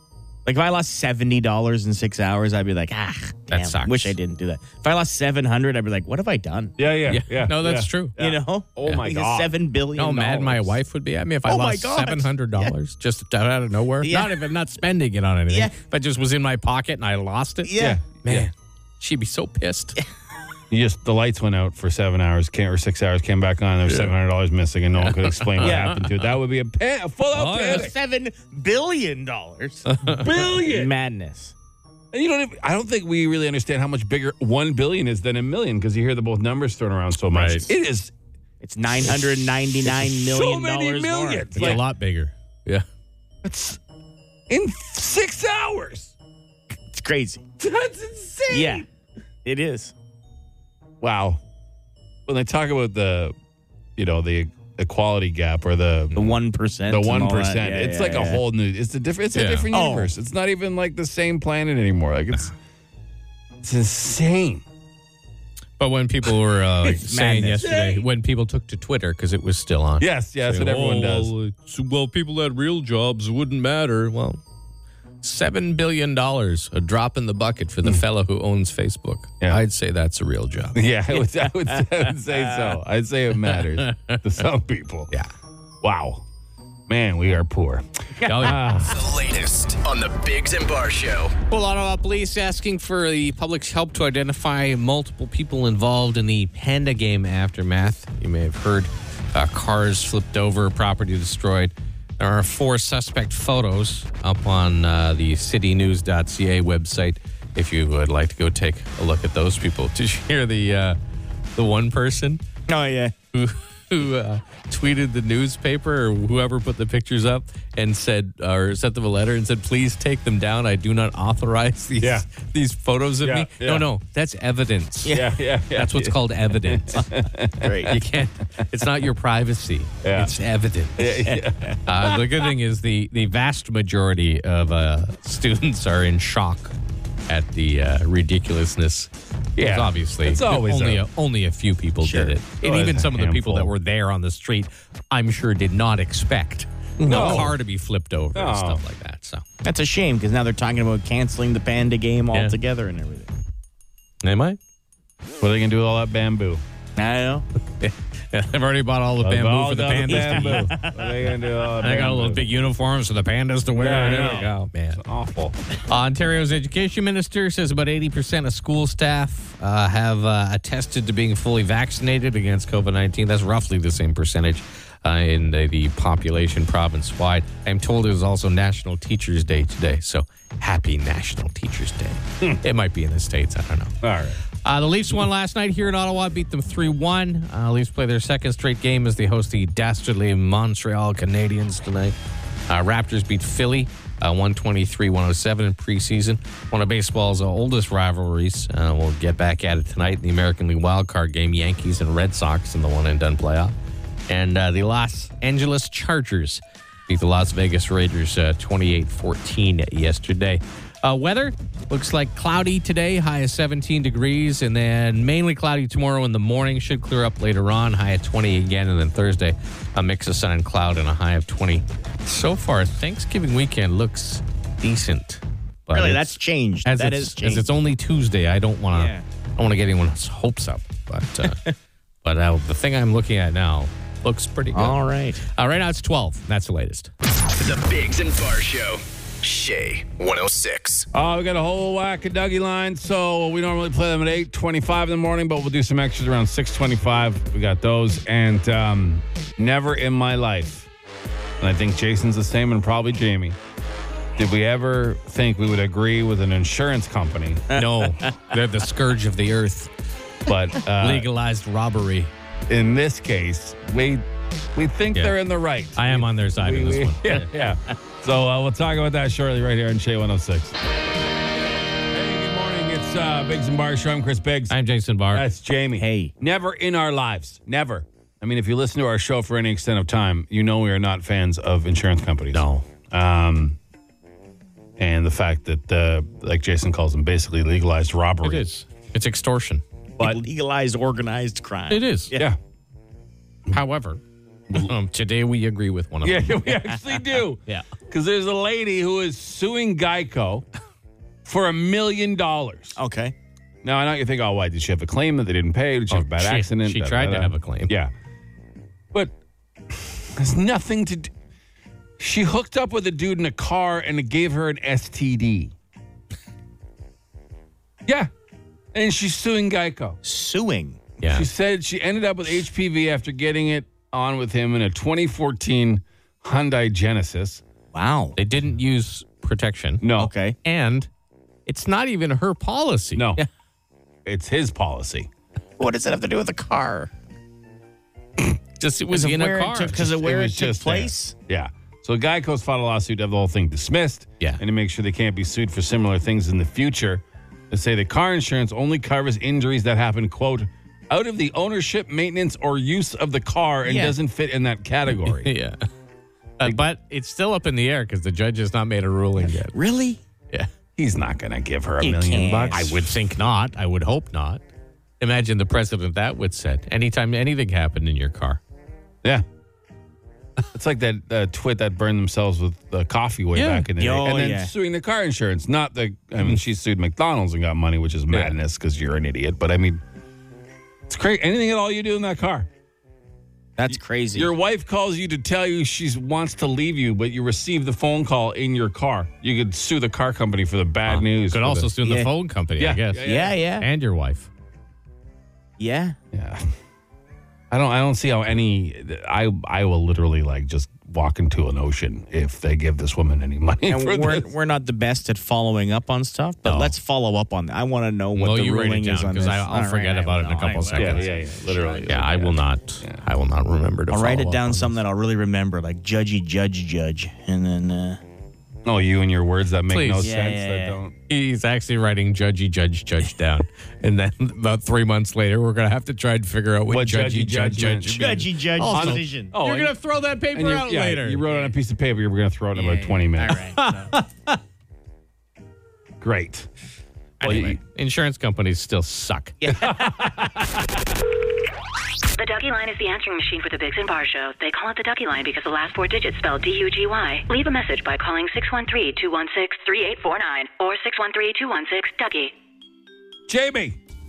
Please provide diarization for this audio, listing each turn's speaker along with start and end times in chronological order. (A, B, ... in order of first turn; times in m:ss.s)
0:00.4-0:06.8 A
0:03.5-0:04.2 B
0:06.8-0:09.5 C
0:07.1-0:08.2 B
0:08.2-0:10.8 A
0:10.0-0:20.0 B
0:11.4-0:12.8 A
0:14.0-0:14.6 A
0:15.5-0:15.8 A
0:17.6-0:18.0 A
0:17.8-0:18.5 C
0:20.7-0:27.9 C
0:25.1-0:26.1 B
0:25.6-0:26.0 A
0:27.3-0:31.6 A
0:29.9-0:30.3 B
0:30.2-0:30.9 C
0:32.1-0:38.1 C
0:37.3-0:37.7 B
0:38.6-0:41.8 A
0:39.8-0:41.8 C
0:41.5-0:42.9 B
0:43.4-0:43.8 C
0:44.5-0:46.1 C
0:46.9-0:47.4 A
0:47.6-0:48.8 C
0:48.5-0:48.8 A
0:49.4-0:49.9 A
0:51.0-0:51.4 C
0:52.3-0:53.3 C
0:54.0-0:56.2 C
0:56.2-0:58.4 A
0:56.9-1:02.5 C
0:59.4-0:59.7 B
0:59.7-1:00.1 A
1:03.6-1:04.6 C
1:05.8-1:14.4 B
1:07.0-1:07.8 A
1:07.6-1:08.0 C
1:10.0-1:11.3 C
1:15.2-1:20.8 B
1:20.8-1:25.1 C
1:21.1-1:22.8 A
1:23.4-1:24.2 B
1:25.8-1:26.2 C
1:26.9-1:27.8 C
1:28.2-1:28.6 A
1:28.2-1:28.6 B
1:28.4-1:29.0 C
1:28.9-1:31.4 D
1:31.5-1:51.0 B
1:51.6-1:52.4 B
1:52.7-1:53.1 A
1:53.3-2:05.2 B
2:02.0-2:02.3 C
2:03.2-2:03.9 C
2:05.0-2:05.3 A
2:05.1-2:08.0 C
2:05.7-2:07.1 B
2:07.6-2:08.0 A
2:07.8-2:11.2 B
2:10.0-2:10.3 C
2:11.0-2:11.7 C
2:11.2-2:12.2 A
2:11.9-2:16.8 B
2:17.3-2:29.4 B
2:19.6-2:21.0 C
2:22.0-2:22.4 A
2:22.6-2:23.7 C
2:27.0-2:27.6 A
2:27.1-2:27.6 C
2:28.4-2:28.8 C
2:29.6-2:33.3 A
2:34.2-2:34.6 B
2:35.4-2:36.6 C
2:37.0-2:37.5 A
2:37.8-2:40.7 B
2:39.2-2:42.5 C
2:40.1-2:41.2 A
2:41.8-2:45.0 B
2:43.8-2:45.6 C
2:45.9-3:03.9 B
3:04.0-3:04.4 C
3:04.6-3:12.2 B
3:12.7-3:23.7 B
3:24.3-3:51.6 B
3:45.9-3:47.8 A
3:48.9-3:49.3 A
3:51.4-3:51.7 A
3:52.2-3:57.1 B
3:54.7-3:55.4 A
3:57.6-4:01.1 D
4:01.1-4:10.9 C
4:11.6-4:13.6 C
4:14.4-4:17.7 C
4:17.7-4:19.9 B
4:17.7-4:18.4 A
4:20.5-4:21.3 C
4:21.0-4:22.3 B
4:22.7-4:24.2 C
4:24.8-4:30.8 C
4:26.0-4:27.5 B
4:32.1-4:34.7 C
4:34.7-4:35.4 B
4:35.3-4:43.8 C
4:36.0-4:36.3 A
4:42.5-4:42.9 B
4:45.0-4:48.6 C
4:48.4-4:49.8 B
4:50.2-4:52.5 A
4:51.9-4:52.4 B
4:53.7-4:54.2 B
4:54.7-4:56.7 B
4:56.2-5:00.7 C
5:01.4-5:03.0 C
5:03.0-5:03.3 A
5:03.8-5:08.1 C
5:06.1-5:07.9 B
5:10.4-5:11.3 C
5:12.2-5:15.7 C
5:18.9-5:20.2 C
5:20.2-5:21.0 A
5:21.2-5:21.5 B
5:21.3-5:27.6 C
5:27.9-5:28.4 A
5:28.4-5:30.0 B
5:30.0-5:30.3 C
5:30.1-5:30.6 A
5:30.6-5:31.1 B
5:31.7-5:33.2 B
5:33.2-5:33.4 C
5:34.3-5:35.3 C
5:35.8-5:37.1 A
5:38.8-5:40.1 B
5:39.1-5:41.4 A
5:39.9-5:55.5 C
5:53.8-5:54.2 A
5:55.1-5:55.8 B
5:56.6-5:59.7 B
5:59.4-6:00.2 A
6:01.0-6:03.1 C
6:02.0-6:02.8 A
6:02.7-6:04.6 B
6:05.2-6:08.6 B
6:10.7-6:20.0 C
6:13.6-6:13.9 B
6:14.0-6:14.7 A
6:21.1-6:22.7 C
6:23.8-6:24.5 A
6:23.9-6:32.0 C
6:31.1-6:34.5 B
6:32.0-6:32.3 A
6:32.8-6:33.6 C
6:33.2-6:33.9 A
6:35.8-6:36.2 A
6:36.3-6:36.6 C
6:37.7-6:44.5 C
6:43.9-6:52.1 A
6:46.6-6:47.0 B
6:48.4-6:51.3 B
6:51.0-6:53.2 C
6:52.1-6:55.0 B
6:54.1-6:58.2 A
6:58.9-7:01.1 C
6:59.9-7:00.3 B
7:00.2-7:01.0 A
7:01.3-7:11.4 B
7:06.9-7:10.0 C
7:08.2-7:09.6 A
7:10.5-7:13.6 C
7:12.7-7:14.2 A
7:13.8-7:14.6 B
7:16.2-7:16.7 C
7:17.4-7:17.8 A
7:17.4-7:17.8 C
7:17.4-7:19.6 B
7:19.6-7:20.2 A
7:19.8-7:20.7 C
7:22.4-7:32.5 E
7:33.5-7:34.0 C